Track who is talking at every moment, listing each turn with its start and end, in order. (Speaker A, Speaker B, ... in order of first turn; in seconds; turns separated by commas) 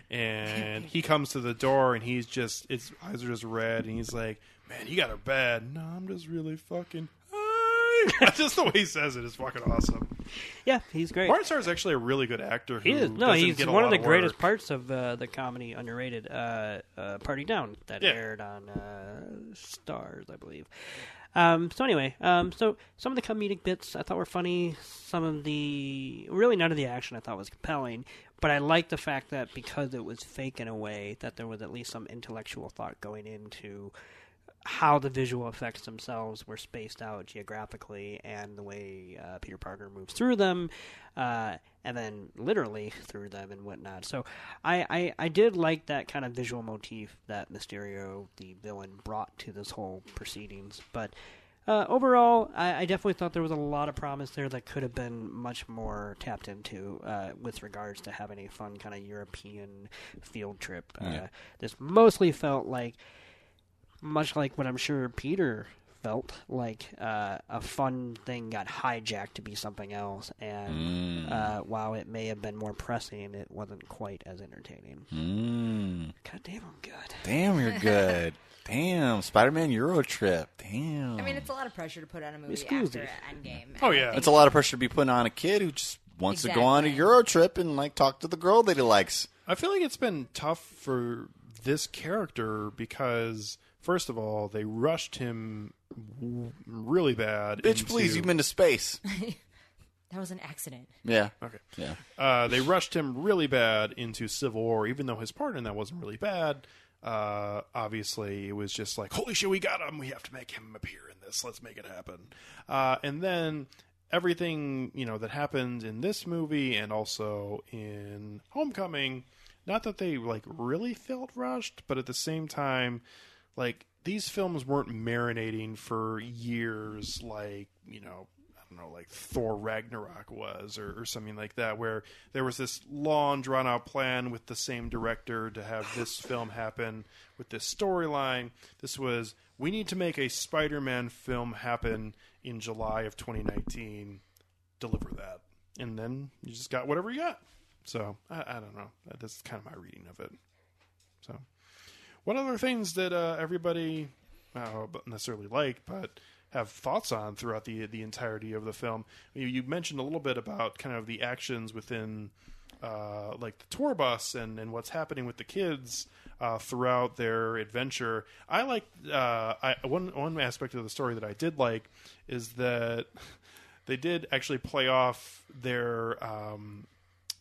Speaker A: 0.1-10.2, Speaker B: 10.6-11.4, Speaker A: 11.3-14.4, Speaker B: 12.8-20.7, Speaker B: 21.3-33.9, Speaker B: 34.6-51.1, Speaker B: 51.7-63.0, Speaker B: 64.0-75.1, Speaker C: 70.7-71.5, Speaker C: 75.1-76.1, Speaker B: 76.2-77.3, Speaker C: 77.2-81.5, Speaker D: 81.2-84.5, Speaker B: 82.5-83.2, Speaker A: 83.8-84.3, Speaker C: 84.1-89.3, Speaker D: 86.3-87.1, Speaker A: 89.5-98.3, Speaker C: 97.6-99.0, Speaker D: 99.0-99.4, Speaker D: 100.1-101.0, Speaker C: 101.0-102.0, Speaker A: 101.4-123.0, Speaker A: 123.6-144.2, Speaker A: 144.8-150.4, Speaker A: 152.2-173.2, Speaker A: 173.9-176.9